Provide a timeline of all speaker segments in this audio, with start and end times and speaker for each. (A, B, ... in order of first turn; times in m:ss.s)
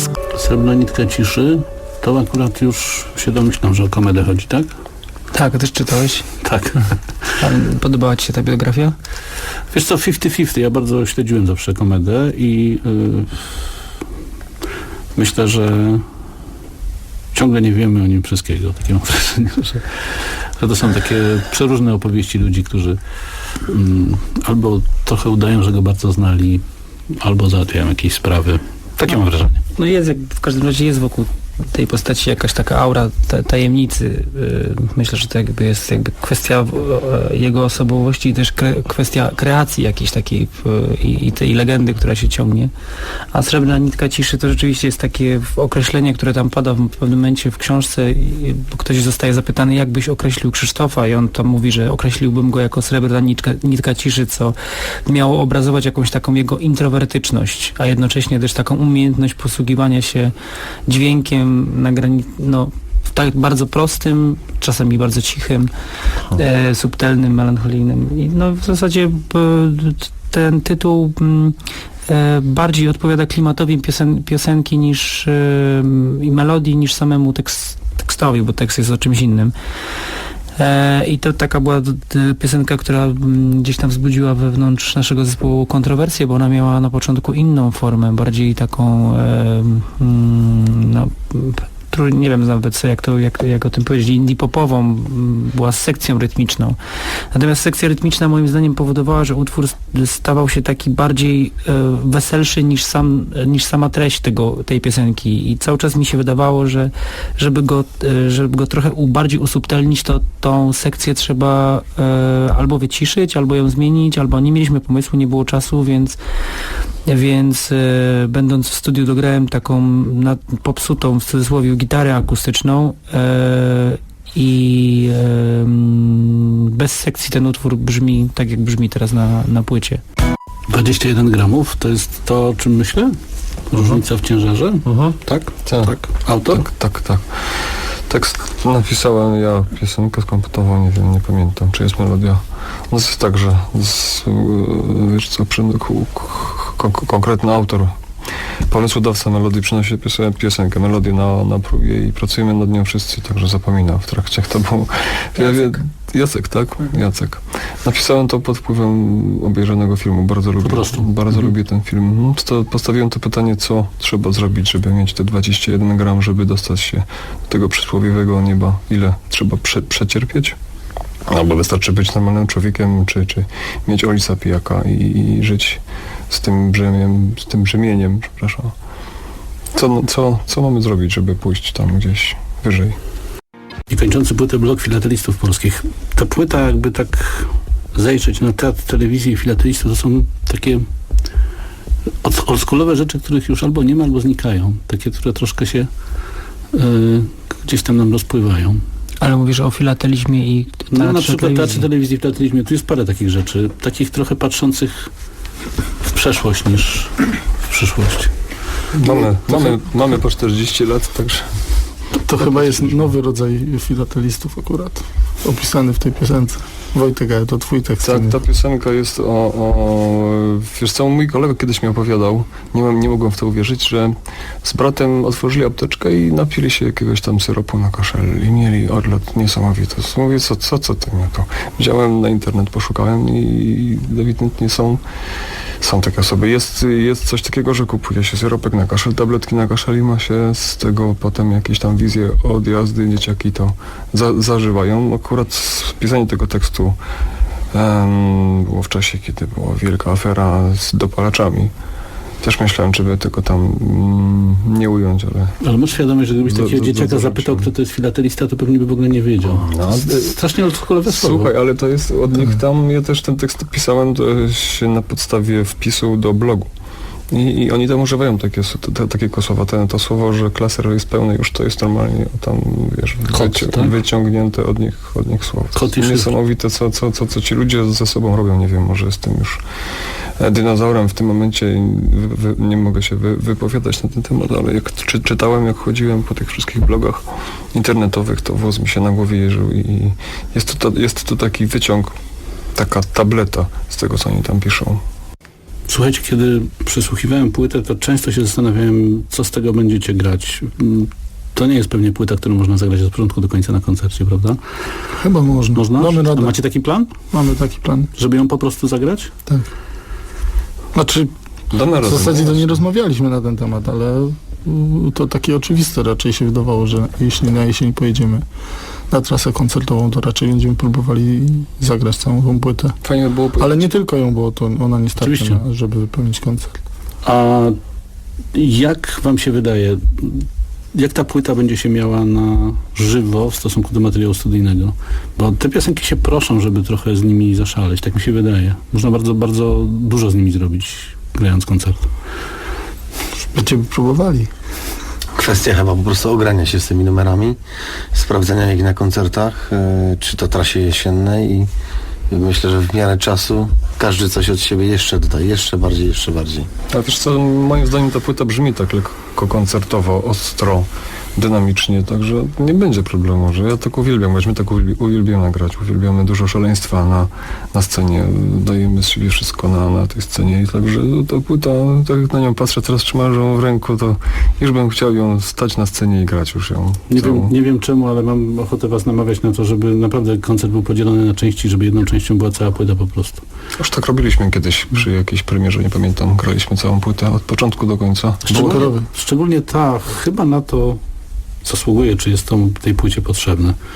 0:00.3-0:04.7 A
0:05.3-0:06.3 B
0:06.4-0:06.9 A
0:07.4-0:09.0 B
0:09.7-0:13.5 A
0:15.2-0:16.0 A
0:17.3-0:23.0 A
0:23.7-0:26.6 A
0:27.2-0:29.6 A
0:29.8-0:42.7 B
0:43.3-1:00.3 B
1:00.9-1:05.7 B
1:06.3-1:19.5 B
1:20.6-1:36.8 B
1:37.3-1:56.2 B
1:57.1-2:10.0 B
2:10.7-2:13.1 A
2:13.7-2:16.6 A
2:14.9-2:15.2 B
2:15.6-2:27.9 C
2:28.7-2:50.6 C
2:40.6-2:41.1 A
2:51.3-2:58.7 C
2:59.7-3:03.0 C
3:03.9-3:10.9 A
3:12.2-3:15.9 A
3:16.7-3:18.8 A
3:19.2-3:21.9 B
3:20.9-3:25.1 A
3:26.0-3:28.3 A
3:28.9-3:31.5 C
3:29.0-3:29.8 D
3:32.1-3:38.4 D
3:32.4-3:33.0 A
3:38.0-3:55.0 C
3:55.8-4:07.0 C
4:07.7-4:11.7 C
4:12.4-4:15.6 C
4:15.6-4:21.5 A
4:16.5-4:17.7 C
4:19.4-4:20.3 C
4:21.1-4:26.7 C
4:27.3-4:39.6 C
4:33.3-4:33.9 A
4:35.7-4:36.3 A
4:40.4-4:52.1 C
4:52.8-4:55.0 C
4:55.9-5:04.6 A
5:05.2-5:06.6 D
5:05.7-5:07.1 A
5:07.3-5:08.1 D
5:08.1-5:09.3 A
5:10.9-5:18.4 D
5:11.7-5:12.8 C
5:19.1-5:23.0 D
5:23.0-5:23.9 C
5:23.6-5:26.8 D
5:25.2-5:25.6 A
5:27.2-5:27.8 A
5:28.5-5:42.0 A
5:43.5-5:44.5 D
5:45.4-5:47.6 E
5:48.1-5:51.7 E
5:52.3-5:56.7 E
5:56.9-6:17.5 C
6:17.1-6:23.4 A
6:23.8-6:28.8 C
6:28.4-6:31.0 A
6:28.5-6:29.1 D
6:31.6-6:33.8 A